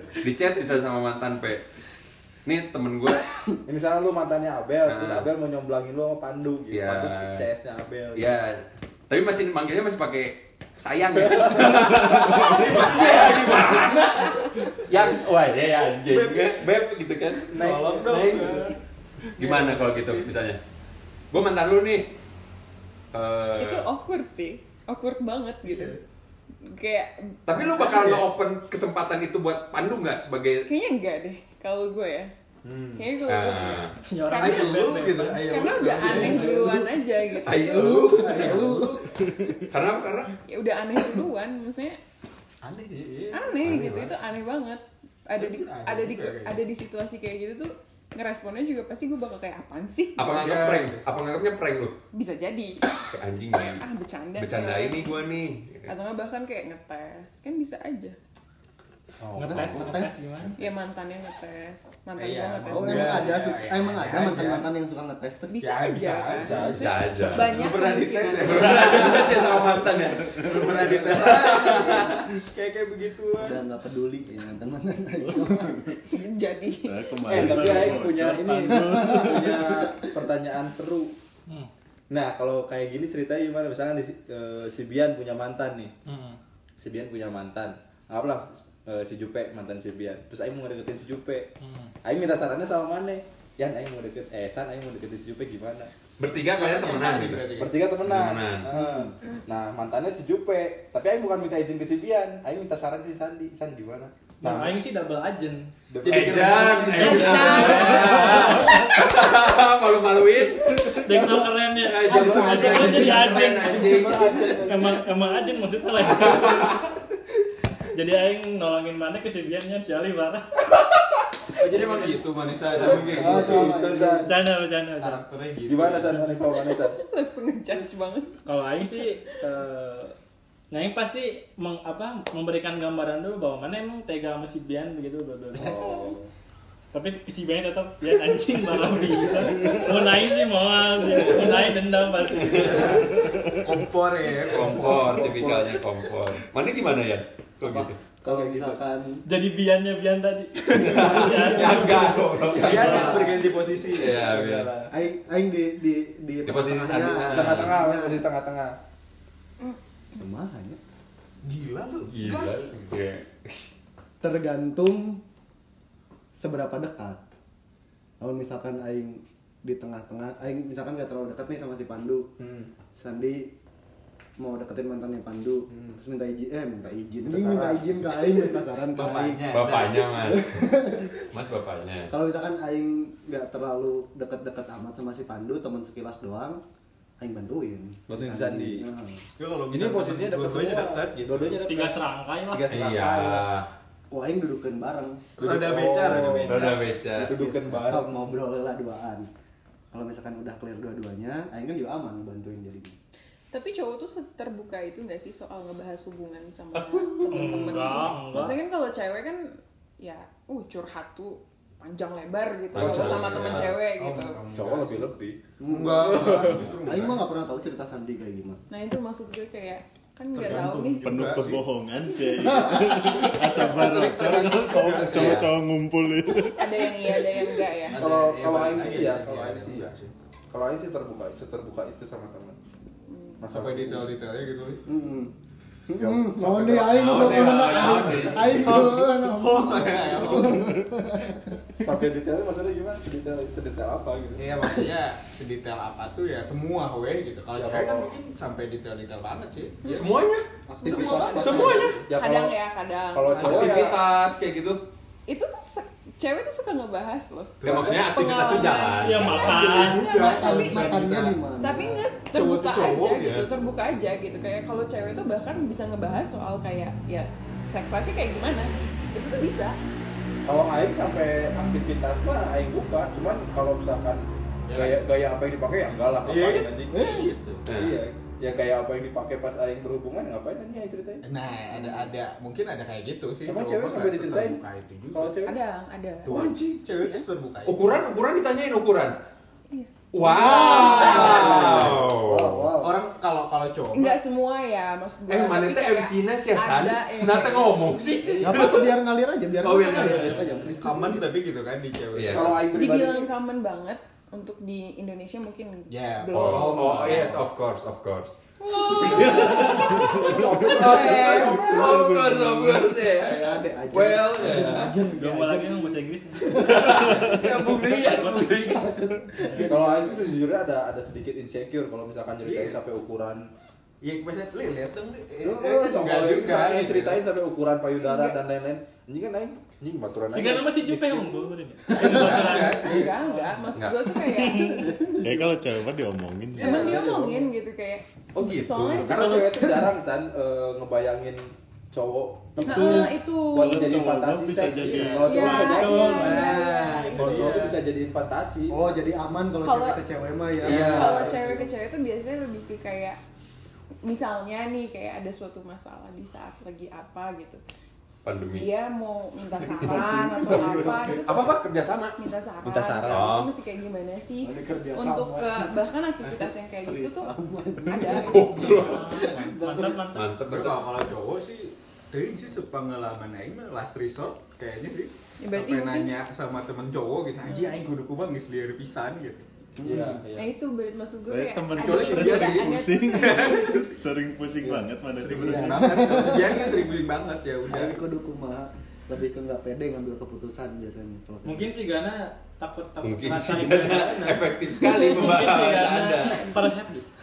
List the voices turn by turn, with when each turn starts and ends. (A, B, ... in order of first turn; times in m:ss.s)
0:00.2-0:01.6 A
0:02.5-0:03.2 A
0:03.6-0:08.3 B
0:04.8-0:05.3 A
0:06.7-0:07.4 A
0:08.2-0:17.5 A
0:12.2-0:13.9 C
0:13.3-0:14.7 D
0:14.8-0:15.1 C
0:16.1-0:16.6 C
0:17.5-0:18.7 B
0:17.5-0:18.7 C
0:18.1-0:18.6 A
0:19.4-0:20.6 A
0:19.4-0:20.3 C
0:21.3-0:22.1 A
0:23.1-0:23.9 A
0:23.6-0:26.0 D
0:25.6-0:26.0 C
0:26.6-0:27.8 D
0:27.5-0:30.7 A
0:27.8-0:28.2 C
0:30.7-0:32.3 D
0:32.6-0:33.1 C
0:32.9-0:34.9 D
0:33.3-0:34.0 A
0:34.1-0:35.5 E
0:34.4-0:36.6 C
0:35.4-0:38.0 D
0:36.1-0:39.6 F
0:37.4-0:38.7 A
0:38.1-0:39.0 C
0:39.7-0:40.3 A
0:40.5-0:42.0 D
0:42.6-0:44.0 C
0:43.3-0:50.3 D
0:43.6-0:44.1 A
0:45.4-0:46.6 C
0:50.2-0:52.0 A
0:50.2-0:51.0 C
0:52.1-0:52.9 D
0:53.1-0:53.8 A
0:53.8-0:55.1 D
0:54.4-0:55.9 A
0:55.9-0:58.2 D
0:59.2-0:59.9 B
0:59.4-1:00.6 E
0:59.4-1:00.5 F
1:00.6-1:03.3 D
1:02.2-1:04.7 C
1:02.7-1:05.6 F
1:05.5-1:09.4 D
1:05.6-1:09.7 C
1:06.4-1:06.8 B
1:06.7-1:07.6 A
1:08.4-1:11.8 A
1:10.4-1:13.6 C
1:10.8-1:11.0 F
1:13.4-1:16.0 F
1:16.1-1:17.4 D
1:16.8-1:19.7 G
1:17.3-1:21.1 B
1:17.5-1:17.8 C
1:18.7-1:20.0 F
1:22.1-1:26.0 B
1:26.0-1:26.4 E
1:26.8-1:31.5 B
1:31.6-1:31.9 E
1:32.0-1:35.9 B
1:36.2-1:37.5 A
1:36.5-1:37.8 C
1:37.6-1:44.8 B
1:38.0-1:38.7 A
1:44.4-1:45.7 E
1:45.9-1:48.7 B
1:46.0-1:48.6 C
1:46.0-1:51.0 A
1:47.0-1:48.5 D
1:51.0-1:56.9 E
1:51.1-1:51.4 B
1:51.8-1:54.5 A
1:52.0-1:54.9 F
1:52.2-1:55.0 B
1:56.1-1:56.9 A
1:57.9-2:00.5 E
2:01.6-2:03.8 C
2:01.6-2:04.3 B
2:02.8-2:04.3 F
2:04.2-2:05.2 E
2:05.0-2:06.2 C
2:05.7-2:07.0 B
2:06.4-2:08.4 D
2:08.5-2:10.2 E
2:10.7-2:16.0 E
2:15.5-2:16.3 B
2:16.9-2:23.0 E
2:22.4-2:22.8 A
2:22.4-2:25.3 C
2:23.2-2:23.5 G
2:24.4-2:28.0 A
2:24.7-2:25.6 B
2:24.7-2:25.4 F
2:27.6-2:29.2 F
2:28.2-2:28.8 B
2:29.3-2:32.0 E
2:30.7-2:32.4 F
2:30.8-2:33.2 A
2:32.4-2:34.2 C
2:32.6-2:34.9 B
2:32.7-2:33.1 E
2:33.9-2:34.7 A
2:34.9-2:38.3 F
2:36.4-2:37.8 A
2:37.3-2:38.8 B
2:40.2-2:40.8 F
2:41.4-2:42.8 C
2:42.1-2:43.7 A
2:44.2-2:45.2 F
2:46.4-2:47.2 F
2:48.2-2:52.3 F
2:52.9-2:53.5 F
2:54.4-2:59.6 F
2:57.3-2:57.8 B
2:58.9-3:00.1 C
2:59.5-3:02.1 A
3:00.2-3:01.1 F
3:02.1-3:06.6 F
3:07.2-3:09.2 F
3:08.1-3:08.9 B
3:09.4-3:11.6 C
3:09.7-3:13.5 B
3:11.6-3:12.7 E
3:12.7-3:13.7 A
3:14.1-3:15.4 F
3:15.4-3:16.8 C
3:15.4-3:18.4 B
3:16.5-3:17.4 A
3:17.2-3:19.3 F
3:19.9-3:23.0 F
3:23.5-3:34.4 D
3:27.3-3:28.6 E
3:32.7-3:33.8 A
3:32.8-3:35.1 C
3:34.5-3:35.4 B
3:35.6-3:38.6 F
3:35.7-3:37.2 C
3:36.1-3:36.7 B
3:38.7-3:41.1 D
3:40.3-3:41.6 C
3:41.0-3:47.4 G
3:42.4-3:43.0 F
3:43.0-3:43.4 D
3:43.4-3:45.5 C
3:45.1-3:45.4 A
3:46.4-3:48.0 D
3:47.9-3:50.1 C
3:47.9-3:49.9 B
3:50.5-3:52.6 B
3:53.1-3:53.4 D
3:53.4-3:54.1 B
3:53.5-3:54.8 C
3:54.9-3:55.3 F
3:55.9-4:01.6 F
3:56.0-3:58.1 B
3:57.0-3:58.8 A
3:57.1-4:00.7 C
4:01.8-4:04.7 B
4:04.4-4:10.0 C
4:07.5-4:08.1 B
4:09.9-4:10.5 A
4:10.7-4:11.8 F
4:10.8-4:14.0 D
4:11.2-4:12.1 C
4:11.2-4:12.0 A
4:11.6-4:12.6 B
4:13.1-4:14.0 B
4:13.4-4:14.8 A
4:15.3-4:21.0 D
4:17.6-4:18.1 C
4:17.6-4:19.4 A
4:19.0-4:20.8 E
4:19.4-4:21.3 C
4:19.6-4:22.0 F
4:21.6-4:29.8 D
4:22.3-4:23.5 C
4:30.5-4:42.1 B
4:34.7-4:35.1 C
4:36.2-4:37.6 C
4:36.9-4:37.3 F
4:37.7-4:38.0 A
4:41.2-4:45.4 C
4:43.5-4:45.6 B
4:45.4-4:46.3 D
4:46.3-4:48.0 C
4:46.3-4:46.6 B
4:47.7-4:49.2 A
4:49.7-4:51.6 D
4:50.1-4:52.7 A
4:50.3-4:53.0 F
4:50.5-4:52.0 C
4:52.8-4:54.2 C
4:53.9-4:58.4 D
4:55.3-4:58.9 A
4:58.4-5:01.3 F
4:59.6-5:02.7 C
5:02.1-5:02.6 A
5:02.3-5:03.3 B
5:02.7-5:07.4 D
5:05.9-5:07.4 C
5:06.3-5:13.6 A
5:08.6-5:10.0 D
5:08.9-5:09.6 C
5:09.5-5:10.2 F
5:10.3-5:11.4 B
5:10.4-5:12.1 C
5:10.8-5:17.3 F
5:13.9-5:15.0 C
5:14.5-5:14.8 B
5:15.1-5:19.7 E
5:16.6-5:18.7 A
5:18.2-5:20.3 F
5:19.6-5:23.5 B
5:22.4-5:22.8 C
5:24.0-5:27.2 C
5:25.4-5:31.5 B
5:28.0-5:28.4 D
5:30.3-5:34.9 E
5:32.0-5:33.1 C
5:32.1-5:33.0 B
5:32.3-5:35.2 D
5:33.8-5:34.1 A
5:34.8-5:35.5 B
5:35.2-5:37.0 G
5:36.6-5:39.4 D
5:36.6-5:37.5 B
5:38.4-5:39.1 A
5:39.0-5:48.8 B
5:39.0-5:39.9 F
5:42.6-5:46.1 G
5:42.6-5:43.9 D
5:45.2-5:47.6 D
5:45.8-5:47.8 C
5:46.0-5:46.4 E
5:48.7-5:51.7 F
5:49.6-5:50.0 D
5:50.6-5:51.4 B
5:50.7-5:53.2 D
5:50.7-5:51.0 C
5:54.0-5:57.6 D
5:58.2-5:58.7 A
5:58.6-6:01.6 D
5:59.6-6:01.3 F
6:01.2-6:02.2 A
6:02.2-6:08.6 D
6:02.7-6:03.2 B
6:02.8-6:03.2 C
6:03.1-6:03.5 A
6:04.4-6:10.1 F
6:08.1-6:09.1 A
6:08.6-6:10.3 E
6:10.2-6:10.8 A
6:10.4-6:19.5 C
6:15.4-6:16.1 D
6:17.4-6:17.8 D
6:19.8-6:20.2 F
6:19.8-6:20.5 B
6:20.4-6:24.0 D
6:21.3-6:26.1 G
6:21.8-6:23.7 C
6:24.6-6:26.9 F
6:25.1-6:28.0 C
6:27.7-6:31.7 F
6:31.4-6:37.1 E
6:33.0-6:36.6 A
6:34.8-6:35.1 D